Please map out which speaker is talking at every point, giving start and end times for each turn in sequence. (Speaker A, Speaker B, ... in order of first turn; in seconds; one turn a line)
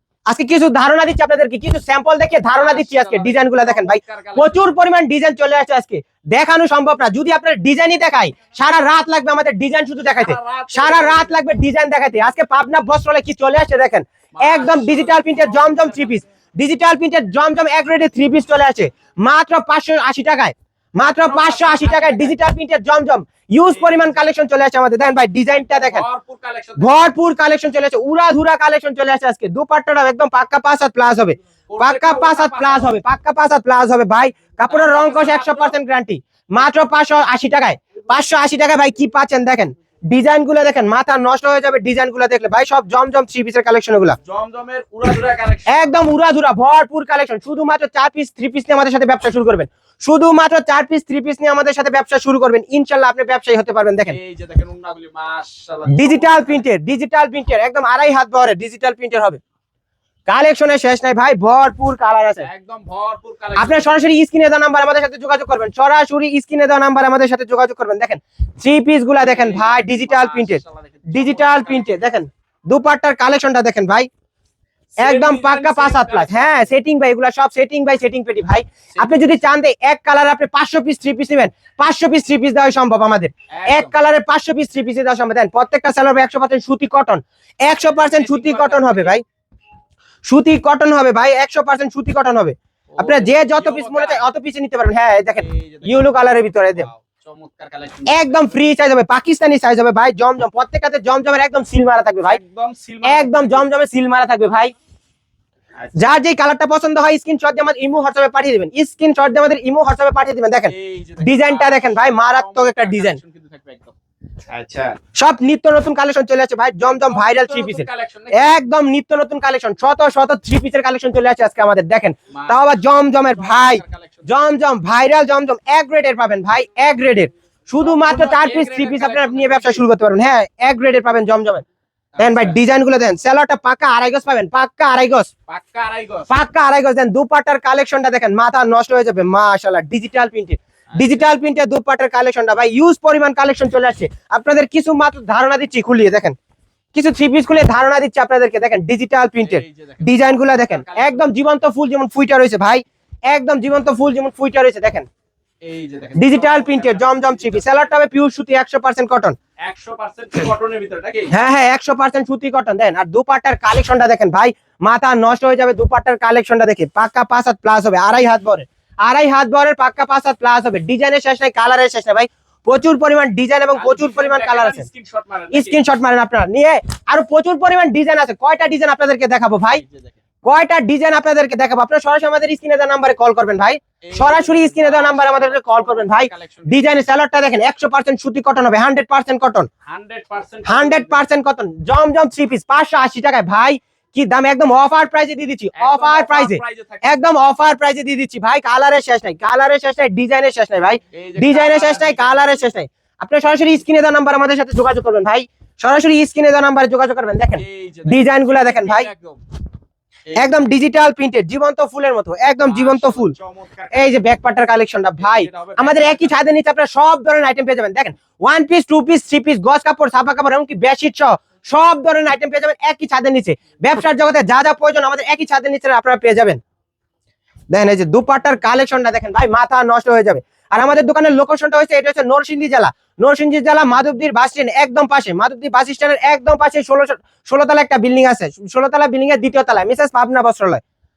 Speaker A: 0.3-26.0
Speaker B: 2.5-4.6
Speaker B: 10.0-11.4
Speaker B: 14.4-16.2
Speaker B: 21.0-22.3
Speaker B: 23.7-24.2
Speaker B: 25.5-27.1
Speaker A: 26.8-44.2
Speaker B: 31.7-33.0
Speaker B: 34.6-35.8
Speaker B: 44.2-45.9
Speaker A: 45.7-54.2
Speaker B: 54.0-56.6
Speaker A: 55.9-59.4
Speaker A: 60.3-62.5
Speaker B: 62.4-64.0
Speaker A: 63.5-74.1
Speaker B: 69.2-71.9
Speaker B: 75.0-76.7
Speaker A: 75.0-89.2
Speaker B: 78.9-79.4
Speaker B: 83.5-83.9
Speaker B: 87.7-89.2
Speaker A: 90.2-96.9
Speaker B: 92.9-94.2
Speaker B: 95.3-96.2
Speaker B: 96.7-98.5
Speaker A: 98.1-102.4
Speaker B: 102.2-103.7
Speaker A: 103.0-104.7
Speaker A: 106.0-113.2
Speaker B: 110.7-113.9
Speaker B: 114.5-115.0
Speaker A: 115.1-131.6
Speaker B: 116.8-118.6
Speaker B: 122.3-124.3
Speaker B: 127.8-129.8
Speaker B: 132.1-132.6
Speaker A: 132.2-135.3
Speaker B: 135.5-136.3
Speaker A: 136.3-146.3
Speaker B: 140.9-141.3
Speaker A: 146.9-155.1
Speaker B: 149.4-151.3
Speaker B: 155.6-157.9
Speaker A: 156.2-159.4
Speaker B: 159.7-161.3
Speaker A: 161.3-174.9
Speaker B: 173.7-175.8
Speaker A: 175.5-179.8
Speaker B: 179.7-180.2
Speaker A: 180.4-189.7
Speaker B: 184.0-187.0
Speaker B: 189.8-191.2
Speaker A: 190.7-209.1
Speaker B: 195.7-197.1
Speaker B: 201.1-202.6
Speaker B: 207.6-209.4
Speaker A: 210.3-213.3
Speaker B: 212.6-214.2
Speaker A: 213.9-226.6
Speaker B: 215.2-216.4
Speaker A: 227.7-240.8